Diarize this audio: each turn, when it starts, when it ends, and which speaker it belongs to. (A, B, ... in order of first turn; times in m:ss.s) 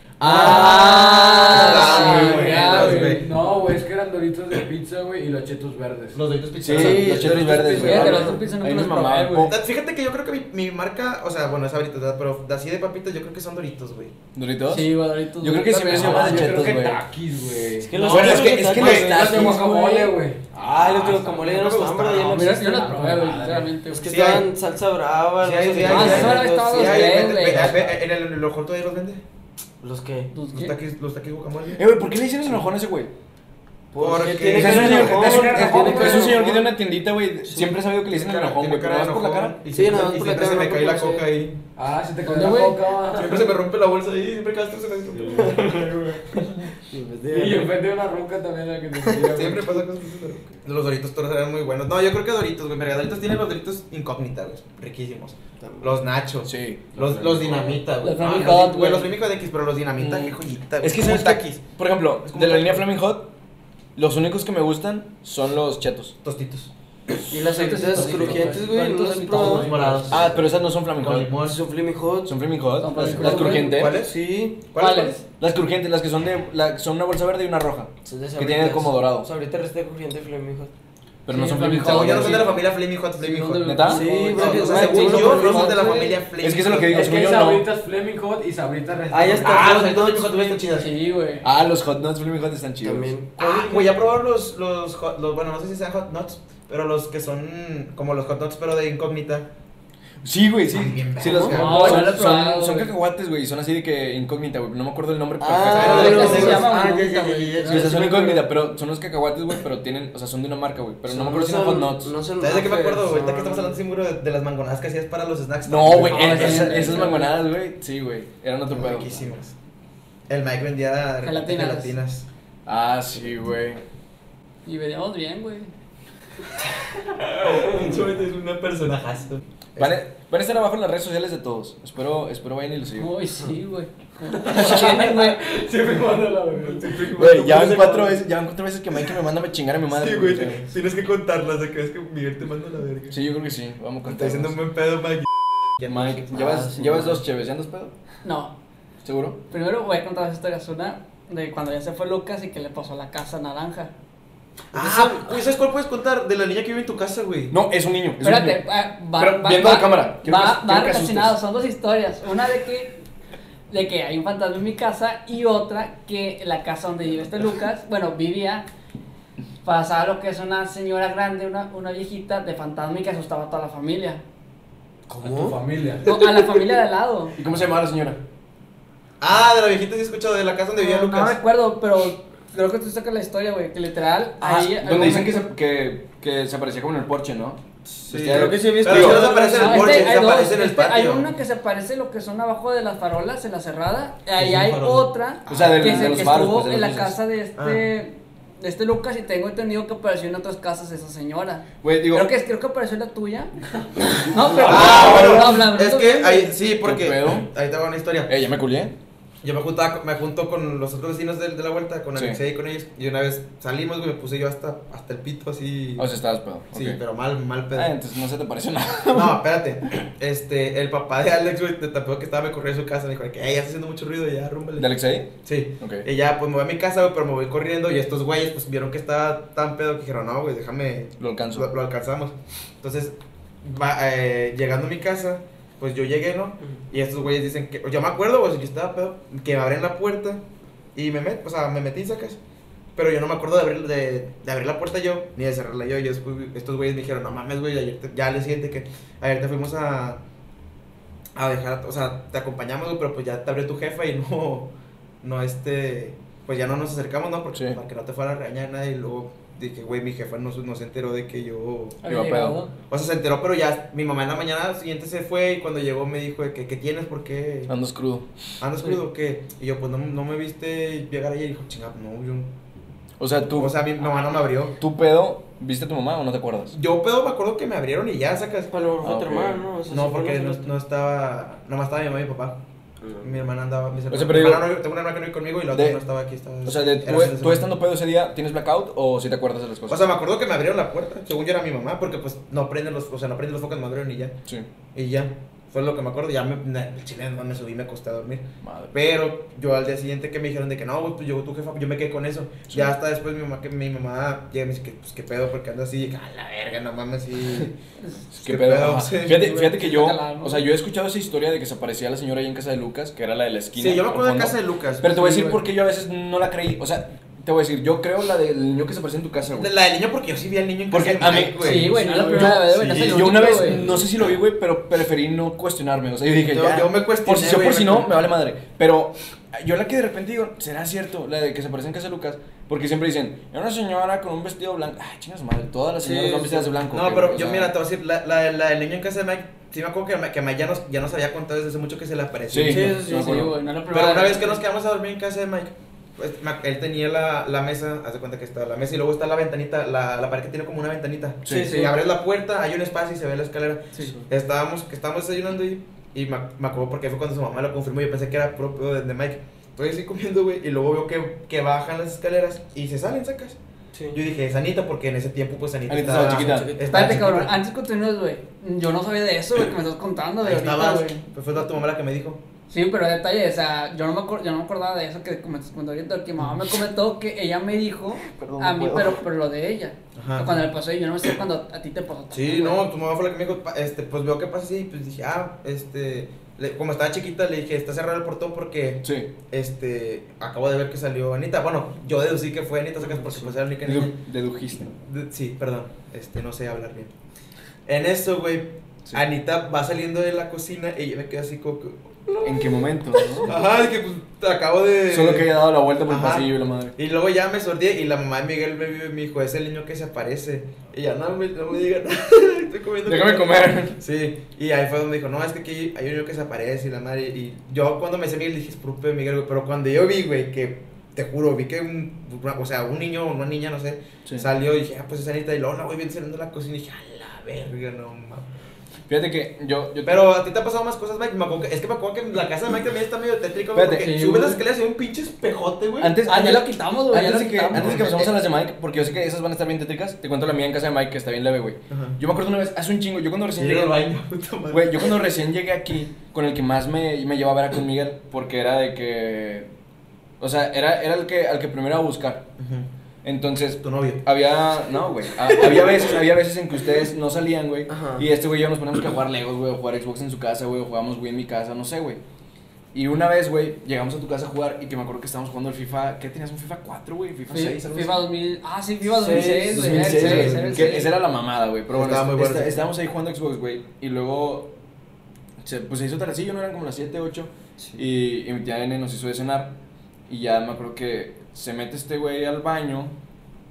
0:00.2-0:03.3 A
0:00.2-0:03.2 B
0:00.4-0:02.2 C
0:01.7-0:06.2 D
0:01.8-0:02.5 E
0:06.1-0:08.0 A
0:06.6-0:09.6 C
0:06.7-0:08.2 E
0:07.4-0:08.4 D
0:07.7-0:09.5 B
0:09.5-0:14.2 A
0:14.4-0:17.0 C
0:14.7-0:16.6 B
0:15.9-0:21.6 D
0:17.8-0:23.0 E
0:17.9-0:19.1 A
0:18.0-0:19.7 C
0:21.1-0:22.5 A
0:22.3-0:24.2 B
0:22.7-0:23.8 D
0:23.9-0:27.6 E
0:24.0-0:24.5 A
0:25.4-0:29.2 A
0:25.8-0:27.8 B
0:25.9-0:26.2 C
0:29.8-0:30.3 E
0:30.3-0:30.8 B
0:30.5-0:31.9 A
0:31.8-0:33.1 C
0:33.9-0:36.5 E
0:34.0-0:35.3 A
0:34.5-0:39.6 C
0:35.0-0:36.6 D
0:38.1-0:41.6 A
0:39.7-0:41.3 E
0:41.8-0:43.5 D
0:42.2-0:42.8 B
0:43.1-0:46.0 A
0:45.2-0:46.3 D
0:45.3-0:45.6 E
0:46.9-0:47.7 E
0:47.3-0:49.8 D
0:49.3-1:01.6 A
0:55.6-0:56.0 E
0:56.4-0:56.8 C
0:57.0-0:57.8 D
0:58.0-0:59.1 B
1:00.0-1:03.3 C
1:02.2-1:02.9 A
1:04.0-1:06.2 C
1:06.2-1:06.7 A
1:07.3-1:10.1 E
1:07.3-1:10.1 B
1:07.9-1:08.6 D
1:09.4-1:11.6 A
1:10.1-1:11.4 C
1:11.4-1:12.3 E
1:12.3-1:14.0 C
1:12.8-1:13.9 B
1:13.0-1:14.6 E
1:13.2-1:14.2 A
1:14.7-1:15.2 A
1:14.8-1:15.2 B
1:15.4-1:19.3 C
1:18.0-1:20.7 E
1:21.2-1:22.6 C
1:21.3-1:22.6 B
1:21.8-1:27.1 A
1:23.2-1:26.2 B
1:23.6-1:24.1 C
1:23.9-1:26.1 E
1:26.4-1:27.7 C
1:26.9-1:29.7 D
1:29.1-1:30.6 E
1:29.4-1:30.9 A
1:30.7-1:31.5 B
1:31.4-1:33.1 C
1:32.8-1:34.0 E
1:33.4-1:39.5 A
1:40.2-1:46.6 C
1:40.7-1:42.1 A
1:41.4-1:42.9 B
1:45.4-1:48.5 E
1:45.7-1:46.7 A
1:45.7-1:48.1 B
1:47.7-1:52.1 C
1:51.1-1:53.8 E
1:52.4-1:57.1 A
1:55.7-1:59.3 C
1:56.0-1:57.4 B
1:58.7-1:59.5 A
2:00.3-2:02.3 A
2:01.2-2:02.0 B
2:02.7-2:03.8 C
2:04.6-2:05.7 B
2:07.3-2:10.0 A
2:09.8-2:13.1 C
2:13.0-2:15.4 B
2:14.4-2:17.7 D
2:14.5-2:15.0 C
2:16.6-2:18.1 A
2:17.1-2:20.7 C
2:19.9-2:23.2 A
2:23.1-2:24.6 C
2:24.1-2:26.2 A
2:25.9-2:27.9 C
2:26.3-2:27.2 E
2:28.2-2:28.5 B
2:29.0-2:29.4 C
2:29.5-2:33.9 B
2:34.7-2:37.6 A
2:37.5-2:38.6 C
2:38.2-2:42.9 B
2:39.2-2:41.4 C
2:43.7-2:48.7 B
2:49.6-2:54.2 B
2:55.1-2:55.6 E
2:55.2-2:56.2 D
2:56.0-2:57.4 B
2:57.4-2:58.2 C
2:59.2-3:01.4 A
3:00.8-3:05.5 B
3:04.4-3:10.0 C
3:08.1-3:11.3 A
3:08.2-3:10.1 E
3:09.6-3:23.5 B
3:14.4-3:16.1 A
3:15.5-3:17.2 C
3:17.6-3:17.8 A
3:21.8-3:22.3 C
3:24.1-3:26.5 B
3:24.6-3:25.6 C
3:24.6-3:28.3 A
3:26.8-3:27.5 C
3:28.3-3:29.0 C
3:29.4-3:36.1 A
3:36.0-3:37.0 C
3:36.7-3:37.9 A
3:37.7-3:39.4 C
3:39.1-3:44.9 A
3:44.8-3:46.1 C
3:45.4-4:00.4 A
3:51.2-3:51.7 C
4:01.0-4:02.4 A
4:03.0-4:10.2 A
4:11.4-4:14.7 A
4:15.2-4:22.0 A
4:17.5-4:17.8 C
4:22.0-4:22.7 B
4:22.1-4:22.6 C
4:22.9-4:27.7 A
4:27.7-4:28.3 C
4:28.6-4:32.5 A
4:33.2-4:33.8 C
4:33.5-4:34.8 A
4:34.8-4:36.8 C
4:36.7-4:38.7 A
4:38.7-4:40.7 E
4:39.0-4:39.7 C
4:39.9-4:42.6 A
4:43.0-4:43.5 E
4:43.2-4:47.7 A
4:44.1-4:44.8 C
4:45.7-4:46.0 C
4:46.6-4:50.1 C
4:49.9-4:54.4 A
4:55.0-5:07.8 A
4:58.6-4:58.9 C
5:02.7-5:02.9 C
5:08.3-5:19.7 C
5:08.4-5:09.5 A
5:09.3-5:10.6 B
5:13.8-5:15.1 A
5:15.1-5:15.6 B
5:19.5-5:24.1 A
5:20.9-5:37.7 C
5:21.6-5:23.9 B
5:26.4-5:28.3 A
5:36.0-5:36.7 E
5:36.9-5:43.0 A
5:42.5-5:43.6 C
5:42.6-5:43.5 E
5:43.0-5:44.6 B
5:43.9-6:03.6 A
5:51.4-5:51.8 C
5:51.5-5:52.0 E
5:54.0-5:54.3 E
6:03.9-6:04.2 E
6:04.1-6:07.5 A
6:05.9-6:07.1 C
6:06.2-6:07.2 E
6:06.9-6:11.3 B
6:10.4-6:12.4 A
6:12.7-6:22.8 B
6:18.2-6:19.2 C
6:20.2-6:20.6 A
6:22.3-6:34.2 A
6:29.0-6:29.3 C
6:33.1-6:33.5 E
6:33.8-6:34.9 C
6:35.0-6:37.1 A
6:37.9-6:42.5 A
6:42.4-6:43.5 C
6:43.4-6:45.5 A
6:45.1-6:47.0 C
6:46.1-7:08.5 A
6:53.1-6:54.0 C
7:09.1-7:10.3 C
7:10.0-7:16.2 A
7:13.8-7:14.3 C
7:14.0-7:14.6 B
7:16.0-7:24.0 C
7:16.2-7:18.1 B
7:17.7-7:18.3 A
7:21.9-7:22.2 A
7:23.6-7:25.3 A
7:24.7-7:29.7 C
7:30.4-7:32.5 C
7:32.6-7:32.9 A
7:33.2-7:42.2 C
7:33.8-7:34.2 A
7:37.9-7:38.2 E
7:42.9-7:48.2 C
7:47.5-7:51.1 B
7:49.0-7:50.4 E
7:49.5-7:54.7 C
7:50.0-7:51.0 A
7:51.9-7:52.9 A
7:55.6-7:59.7 C
8:00.3-8:03.1 C